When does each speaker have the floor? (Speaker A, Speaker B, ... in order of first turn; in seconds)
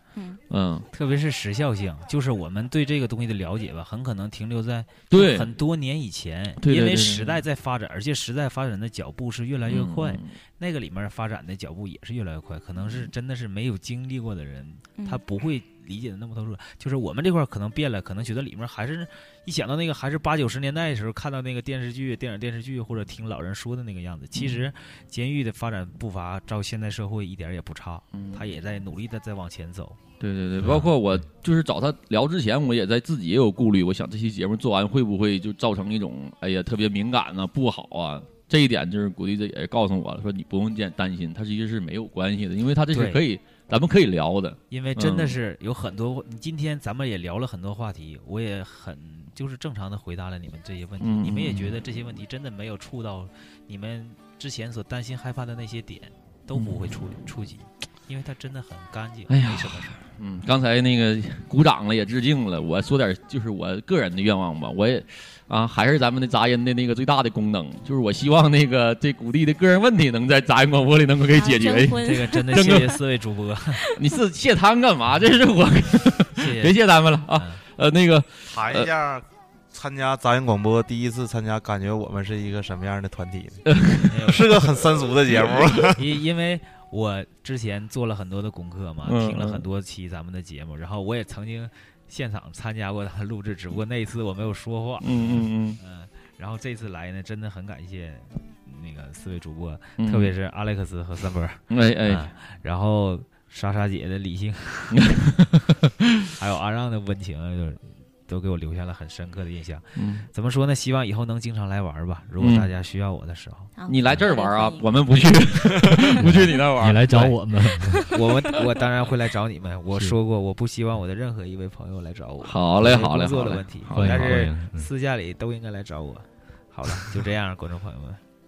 Speaker A: 0.1-0.4, 15.0-15.2, 71.3-72.9, 113.8-115.2, 115.8-116.6
Speaker B: 0.5-0.9, 5.1-5.5, 6.6-7.4, 9.7-10.3, 28.1-28.4, 30.2-45.4, 51.0-51.8, 56.5-56.9, 59.3-73.0, 73.9-78.9, 83.7-84.3, 85.4-85.7, 89.0-89.6, 95.0-95.8, 100.0-100.3, 101.7-102.3, 104.9-105.5, 110.0-110.3, 112.4-112.7, 113.9-117.3, 122.4-124.5
Speaker C: 0.9-30.0, 42.9-43.2, 44.7-60.0, 72.0-73.8, 76.3-77.6, 84.1-84.6, 85.8-105.2, 106.3-113.7, 118.1-128.2
Speaker D: 30.6-30.9, 116.2-118.1, 123.9-124.9
Speaker E: 78.5-83.8, 84.3-86.0